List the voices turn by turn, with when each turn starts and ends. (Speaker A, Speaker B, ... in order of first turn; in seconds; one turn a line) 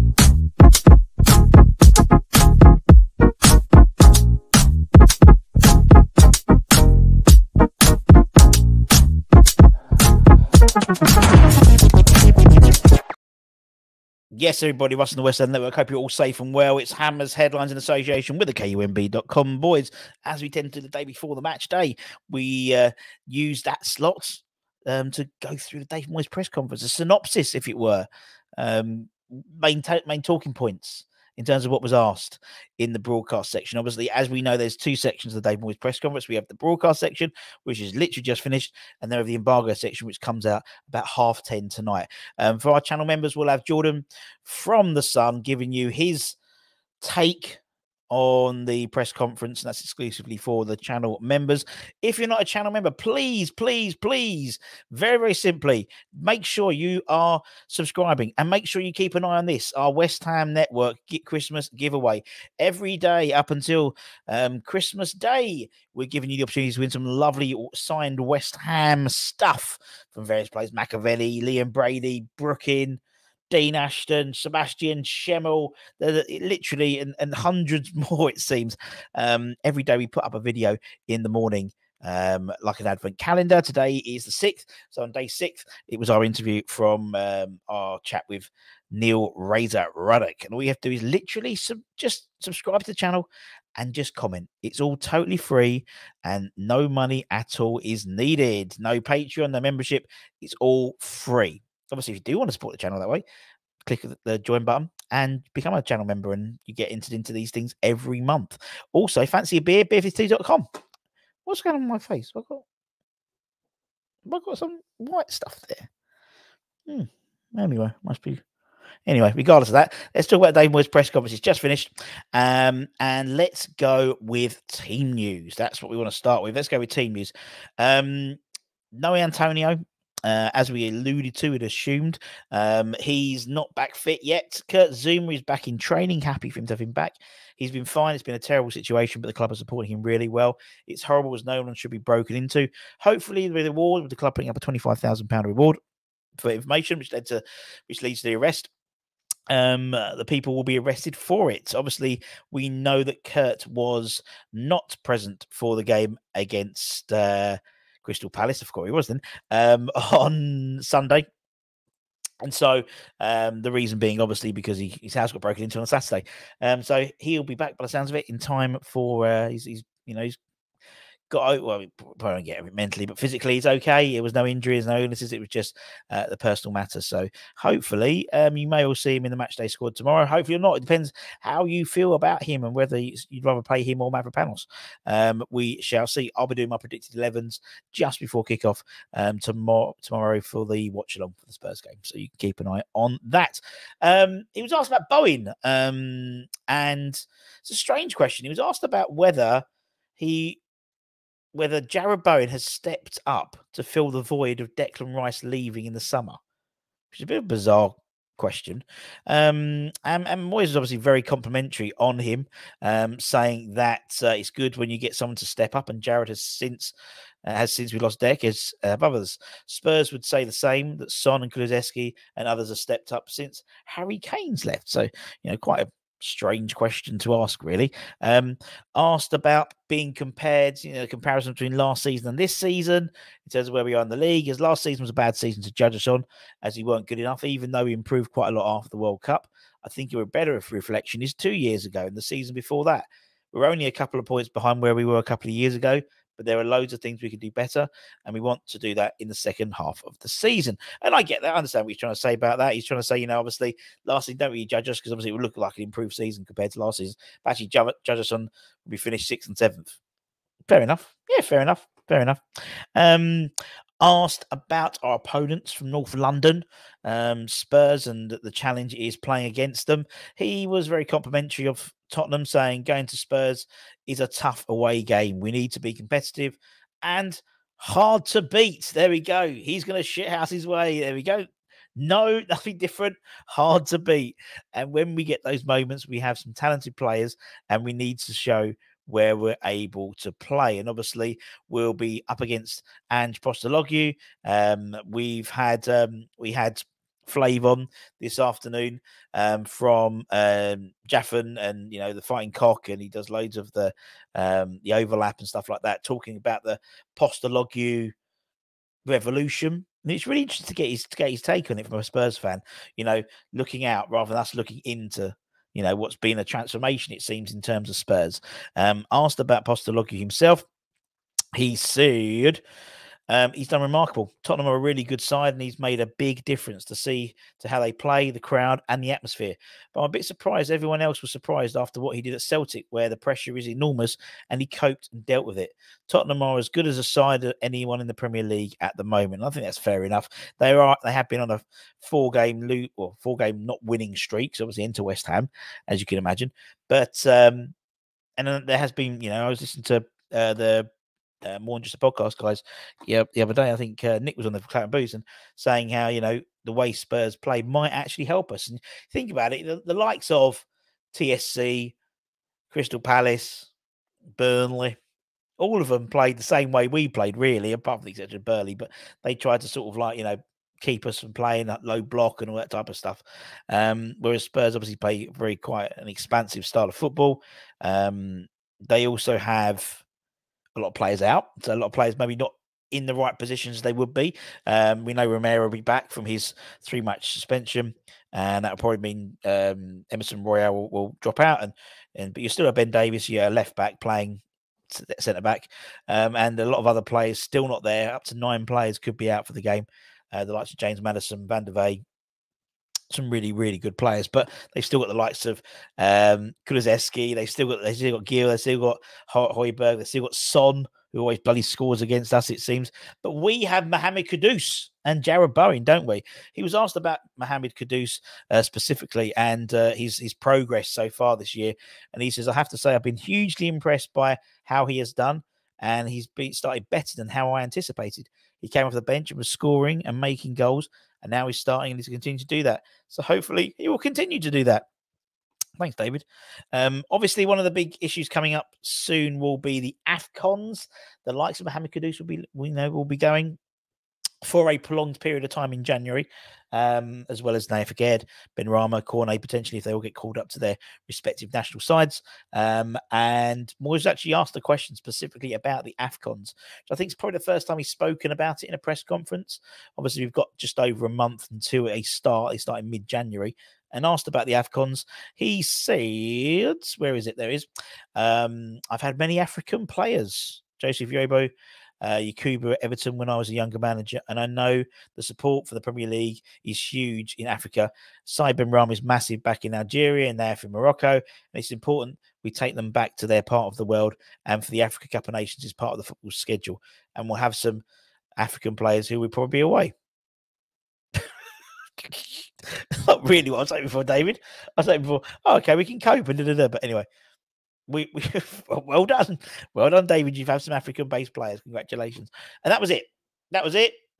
Speaker A: 14.3-46.4
Speaker A: 47.0-73.0
Speaker A: 73.5-103.2
Speaker A: 103.8-110.7
Speaker A: 111.5-112.7
Speaker A: 114.3-115.9
Speaker A: 116.9-118.4
Speaker A: 119.1-128.4
Speaker A: 128.9-145.8
Speaker A: 146.4-148.7
Speaker A: 149.5-161.3
Speaker A: 162.4-170.4
Speaker A: 171.3-199.6
Speaker A: 200.2-200.6
Speaker A: 201.5-206.4
Speaker A: 207.1-216.9
Speaker A: 217.4-260.0
Speaker A: 260.7-262.4
Speaker A: 262.9-308.1
Speaker A: 309.1-320.6
Speaker A: 321.5-322.6
Speaker A: 323.3-347.7
Speaker A: 348.4-350.9
Speaker A: 351.4-361.9
Speaker A: 362.7-363.7
Speaker A: 364.4-365.0
Speaker A: 365.6-380.0
Speaker A: 380.7-402.0
Speaker A: 403.1-434.9
Speaker A: 435.8-443.6
Speaker A: 444.4-487.8
Speaker A: 488.4-489.9
Speaker A: 492.0-497.1
Speaker A: 497.9-503.9